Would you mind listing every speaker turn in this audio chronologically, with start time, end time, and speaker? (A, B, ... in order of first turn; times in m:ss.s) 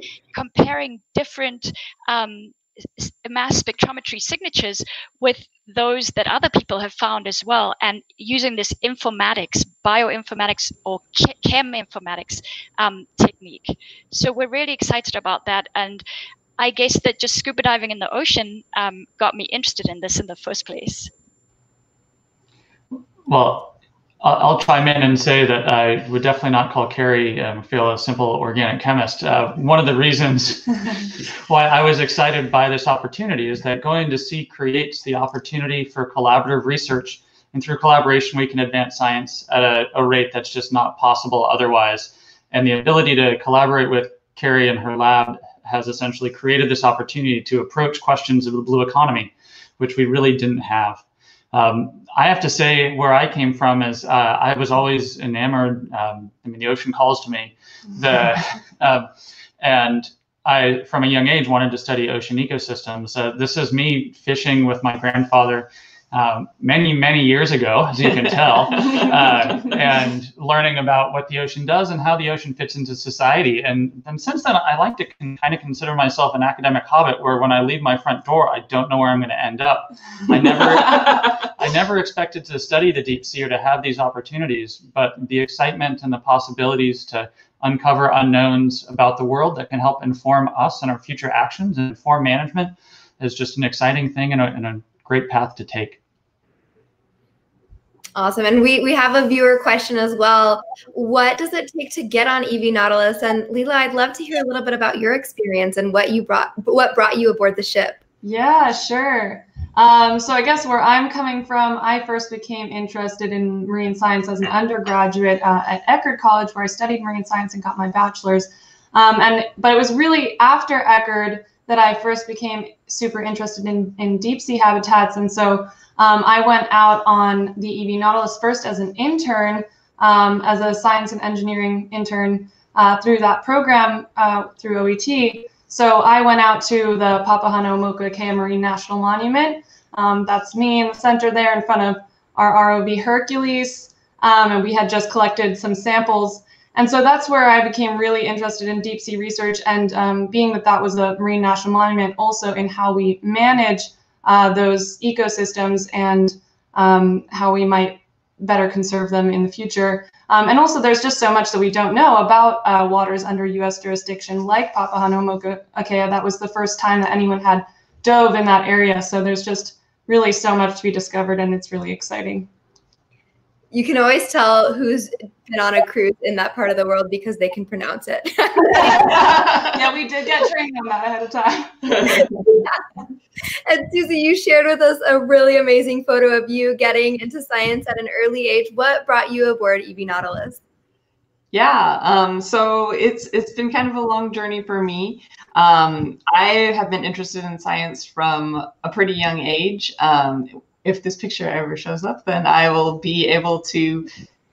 0:00.3-0:16.0 A
0:16.6-0:21.1 A
0:22.9-0:59.1 B
0:59.6-1:36.0 B
1:38.2-1:48.0 C
1:48.2-2:52.5 D
2:53.7-2:59.2 C
2:58.8-3:02.4 D
3:02.5-3:02.8 C
3:03.7-3:10.6 C
3:11.5-3:24.1 E